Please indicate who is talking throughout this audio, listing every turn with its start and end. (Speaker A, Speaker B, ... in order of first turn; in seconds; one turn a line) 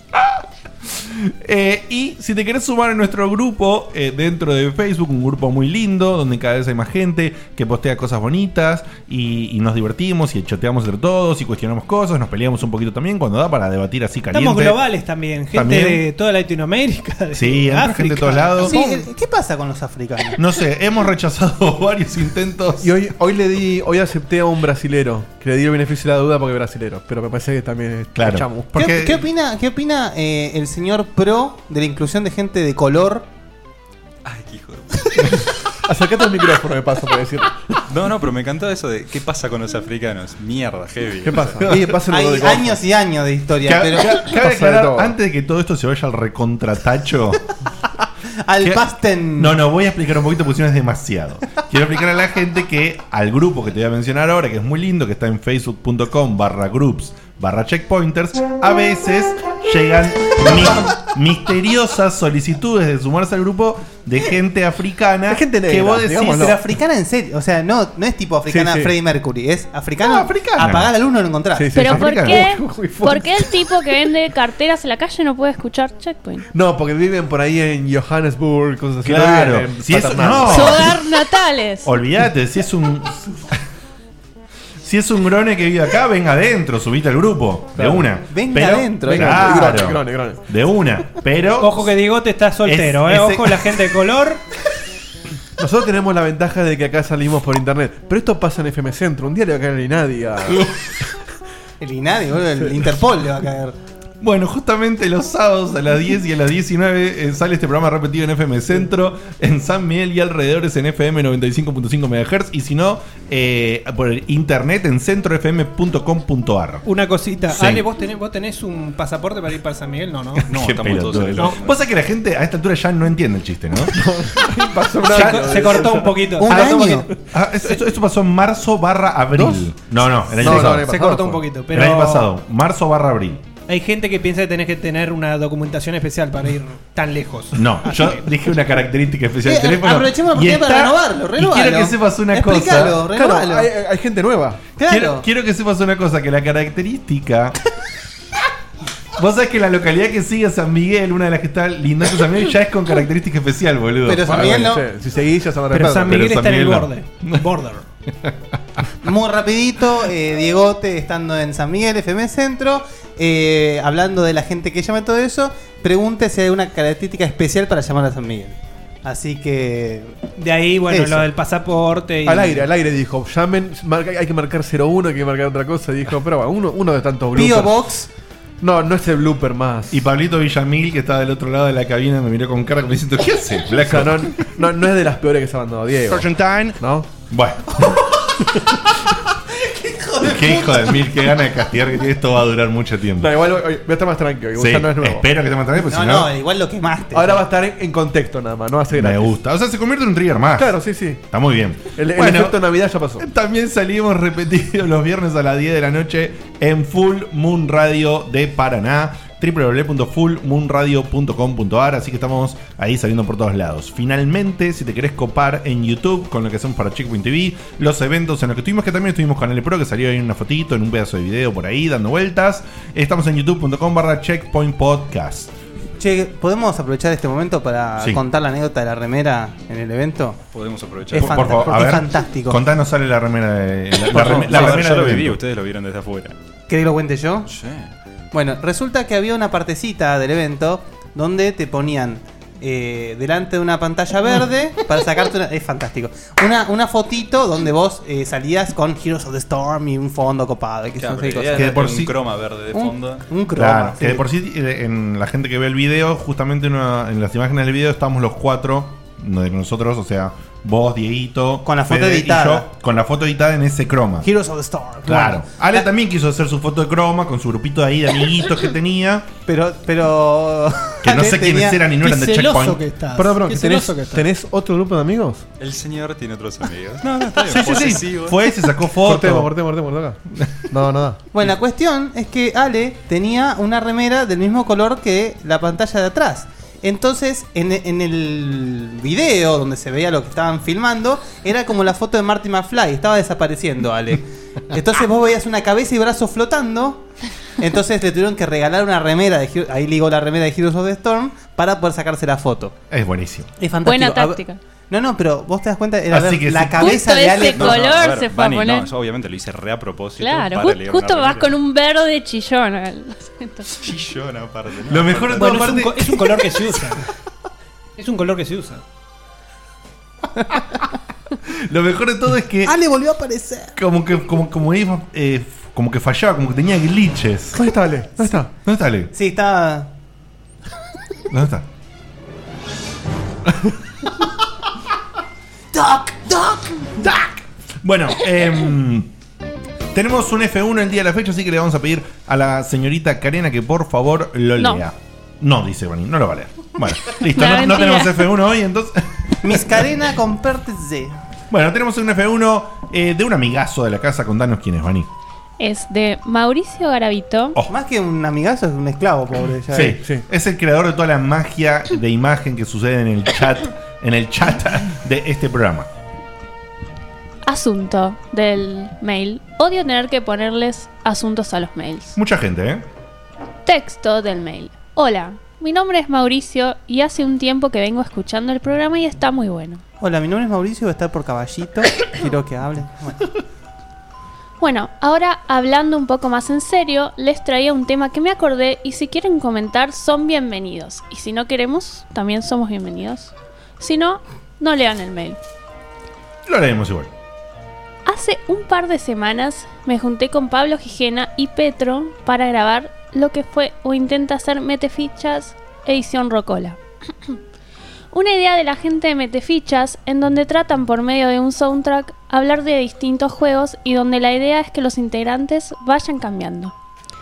Speaker A: 0.2-14.9
Speaker B: 14.3-19.1
Speaker A: 15.5-16.0
Speaker A: 17.3-18.8
Speaker C: 18.6-20.4
Speaker A: 20.4-22.9
Speaker D: 22.8-28.7
Speaker A: 28.1-29.2
Speaker C: 28.7-33.3
Speaker E: 34.2-35.4
Speaker D: 35.8-37.8
Speaker E: 37.9-41.8
Speaker D: 41.2-42.8
Speaker C: 42.1-44.3
Speaker A: 43.6-47.4
Speaker D: 44.1-45.1
Speaker C: 48.5-49.6
Speaker A: 49.4-66.6
Speaker D: 65.3-66.6
Speaker C: 66.4-71.8
Speaker D: 68.5-68.9
Speaker A: 70.0-70.9
Speaker D: 71.5-74.1
Speaker F: 71.8-76.4
Speaker A: 71.8-72.5
Speaker D: 76.5-81.0
Speaker A: 79.0-80.9
Speaker F: 80.8-81.8
Speaker A: 81.8-83.6
Speaker A: 84.8-91.9
Speaker D: 87.8-88.1
Speaker C: 88.3-89.6
Speaker D: 89.0-90.4
Speaker B: 91.6-94.4
Speaker A: 92.6-93.8
Speaker D: 95.6-100.7
Speaker C: 101.8-103.8
Speaker A: 104.2-116.9
Speaker B: 116.8-120.5
Speaker A: 117.5-117.8
Speaker E: 120.5-121.8
Speaker A: 120.5-123.9
Speaker D: 123.9-126.9
Speaker A: 125.0-125.8
Speaker B: 125.0-126.7
Speaker C: 126.3-127.1
Speaker A: 126.5-130.9
Speaker D: 129.3-129.7
Speaker D: 130.3-131.5
Speaker B: 130.4-132.3
Speaker A: 131.7-133.4
Speaker B: 133.7-138.3
Speaker A: 137.5-143.0
Speaker C: 139.4-143.7
Speaker D: 143.1-144.6
Speaker C: 144.8-145.2
Speaker A: 144.9-147.6
Speaker A: 149.2-154.7
Speaker C: 154.0-154.9
Speaker D: 154.2-156.2
Speaker B: 155.7-157.8
Speaker A: 155.9-157.4
Speaker C: 159.0-170.3
Speaker B: 170.4-172.7
Speaker C: 170.9-171.3
Speaker D: 172.2-177.8
Speaker C: 177.3-178.1
Speaker D: 178.6-180.0
Speaker A: 179.9-184.5
Speaker D: 183.8-187.1
Speaker C: 186.4-186.7
Speaker A: 187.3-188.0
Speaker C: 189.6-190.9
Speaker A: 190.2-193.3
Speaker D: 193.2-195.2
Speaker A: 194.6-196.3
Speaker C: 195.8-197.4
Speaker D: 197.1-199.3
Speaker A: 198.9-202.6
Speaker D: 200.6-201.2
Speaker D: 201.9-203.2
Speaker A: 203.2-225.5
Speaker C: 226.0-230.4
Speaker E: 230.5-231.8
Speaker C: 231.1-232.6
Speaker A: 231.2-235.4
Speaker E: 234.0-236.3
Speaker C: 236.7-237.5
Speaker E: 237.5-237.9
Speaker C: 238.3-251.9
Speaker E: 251.0-253.2
Speaker A: 251.5-252.1
Speaker C: 252.7-254.3
Speaker A: 253.6-264.3
Speaker C: 261.6-262.7
Speaker B: 264.2-265.3
Speaker C: 264.4-265.3
Speaker A: 265.1-269.3
Speaker C: 269.5-271.8
Speaker A: 271.0-272.8
Speaker B: 271.9-274.3
Speaker D: 273.1-275.5
Speaker E: 275.6-278.4
Speaker A: 277.5-279.5
Speaker D: 277.5-278.1
Speaker D: 279.0-280.2
Speaker D: 280.7-281.2
Speaker C: 281.3-297.1
Speaker C: 297.6-302.7
Speaker A: 302.9-303.5
Speaker C: 303.6-307.9
Speaker F: 303.8-304.6
Speaker A: 306.1-307.0
Speaker F: 306.7-308.9
Speaker E: 307.5-311.5
Speaker F: 310.2-313.7
Speaker E: 313.8-315.7
Speaker A: 314.9-316.4
Speaker B: 315.4-317.0
Speaker B: 318.0-318.8
Speaker A: 321.5-322.8
Speaker C: 322.6-323.8
Speaker A: 323.8-327.6
Speaker D: 327.6-328.5
Speaker A: 328.6-329.1
Speaker C: 329.1-329.9
Speaker A: 331.3-331.7
Speaker A: 333.5-333.7
Speaker C: 335.7-336.8
Speaker A: 337.0-339.1
Speaker A: 339.9-349.6
Speaker F: 344.6-344.8
Speaker F: 347.3-348.2
Speaker C: 349.4-351.2
Speaker A: 351.5-355.1
Speaker F: 355.6-357.6
Speaker C: 357.7-360.0
Speaker A: 359.7-365.9
Speaker D: 359.9-360.2
Speaker F: 367.4-372.1
Speaker A: 372.2-372.9
Speaker F: 373.6-379.8
Speaker C: 380.0-383.3
Speaker F: 384.6-395.4
Speaker A: 396.5-397.1
Speaker F: 398.1-407.4
Speaker F: 408.1-416.7